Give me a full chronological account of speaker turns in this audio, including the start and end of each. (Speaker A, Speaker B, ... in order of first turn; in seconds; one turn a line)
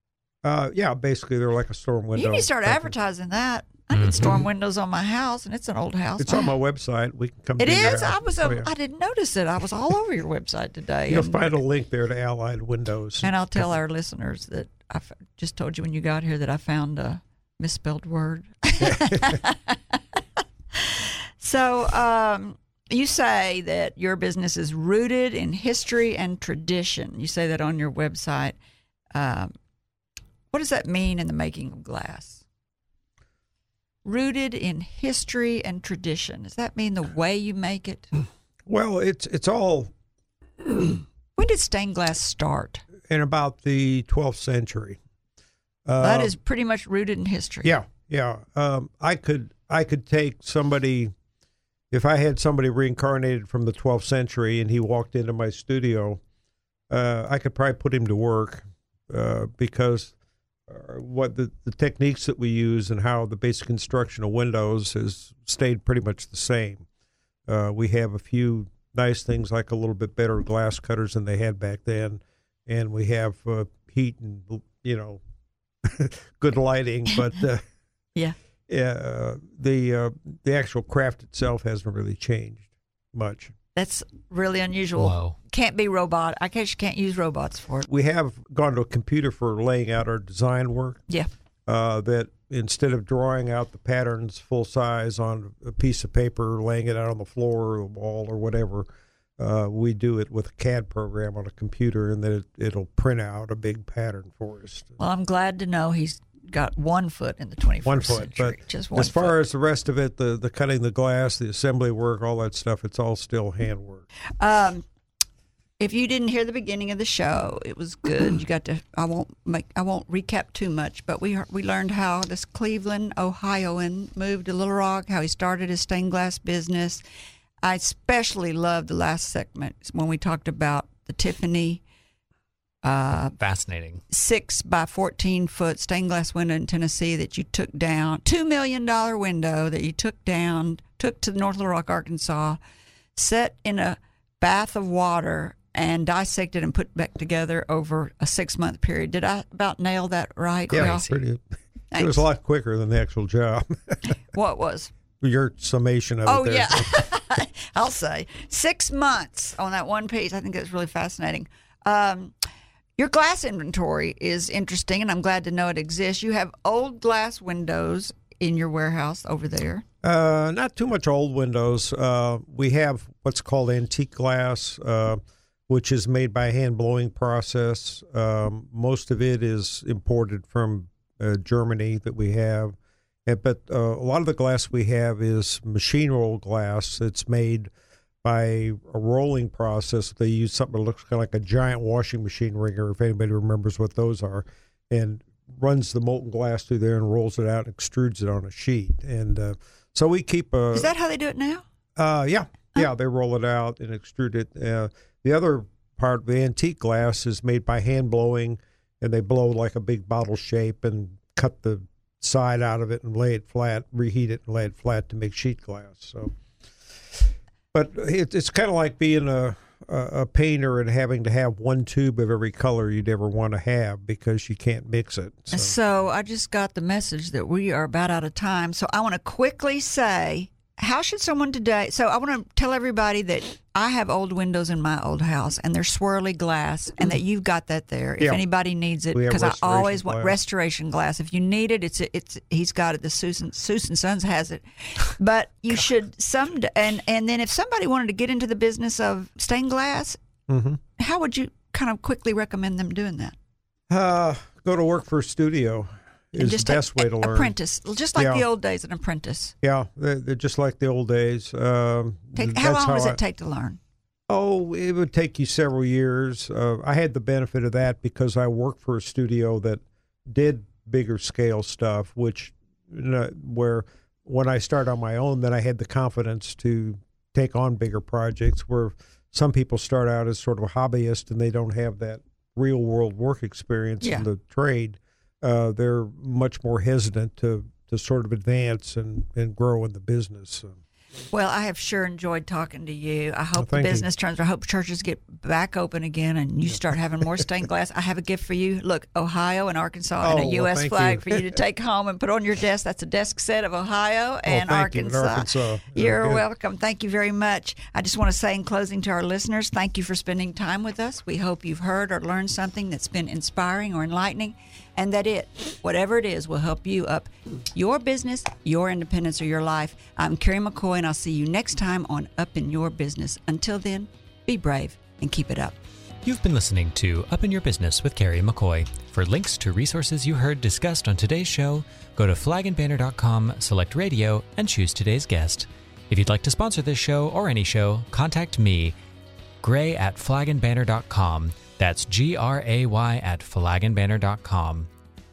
Speaker A: 0.4-2.9
Speaker B: 2.1-6.5
Speaker C: 4.0-4.2
Speaker A: 6.2-8.7
Speaker B: 7.6-11.6
Speaker A: 11.1-13.7
Speaker B: 13.2-20.0
Speaker A: 18.8-19.4
Speaker B: 20.7-28.6
Speaker B: 29.1-29.5
Speaker B: 30.5-32.4
Speaker B: 34.0-38.1
Speaker A: 38.6-39.9
Speaker A: 40.6-41.0
Speaker B: 41.4-42.8
Speaker A: 43.1-45.0
Speaker A: 45.9-46.3
Speaker B: 46.0-47.7
Speaker A: 47.6-51.1
Speaker A: 51.9-56.2
Speaker A: 56.9-60.1
Speaker A: 60.7-66.8
Speaker A: 67.5-75.2
Speaker A: 75.8-77.6
Speaker A: 78.7-83.5
Speaker B: 83.7-87.9
Speaker C: 85.0-85.3
Speaker A: 87.9-91.0
Speaker A: 91.7-98.8
Speaker A: 99.4-104.9
Speaker B: 105.0-109.3
Speaker A: 107.8-114.0
Speaker B: 114.4-114.8
Speaker B: 115.8-127.0
Speaker B: 127.6-131.8
Speaker B: 132.8-133.3
Speaker C: 133.4-134.0
Speaker B: 134.1-142.6
Speaker B: 143.2-151.1
Speaker A: 150.7-151.4
Speaker B: 151.9-152.2
Speaker A: 151.9-154.1
Speaker B: 154.3-154.9
Speaker A: 155.2-157.0
Speaker B: 156.2-162.3
Speaker B: 163.0-169.8
Speaker A: 170.0-187.7
Speaker A: 188.2-200.9
Speaker B: 200.7-201.6
Speaker A: 201.9-216.3
Speaker A: 217.1-225.7
Speaker B: 225.5-250.2
Speaker A: 239.1-240.4
Speaker A: 250.5-250.8
Speaker B: 251.0-253.3
Speaker A: 253.9-257.5
Speaker B: 256.4-259.5
Speaker A: 258.1-258.4
Speaker A: 259.6-263.2
Speaker B: 262.4-263.8
Speaker A: 264.3-290.8
Speaker B: 291.3-325.8
Speaker A: 293.6-294.1
Speaker A: 300.2-301.4
Speaker A: 304.4-306.4
Speaker C: 326.2-338.9
Speaker C: 339.6-344.9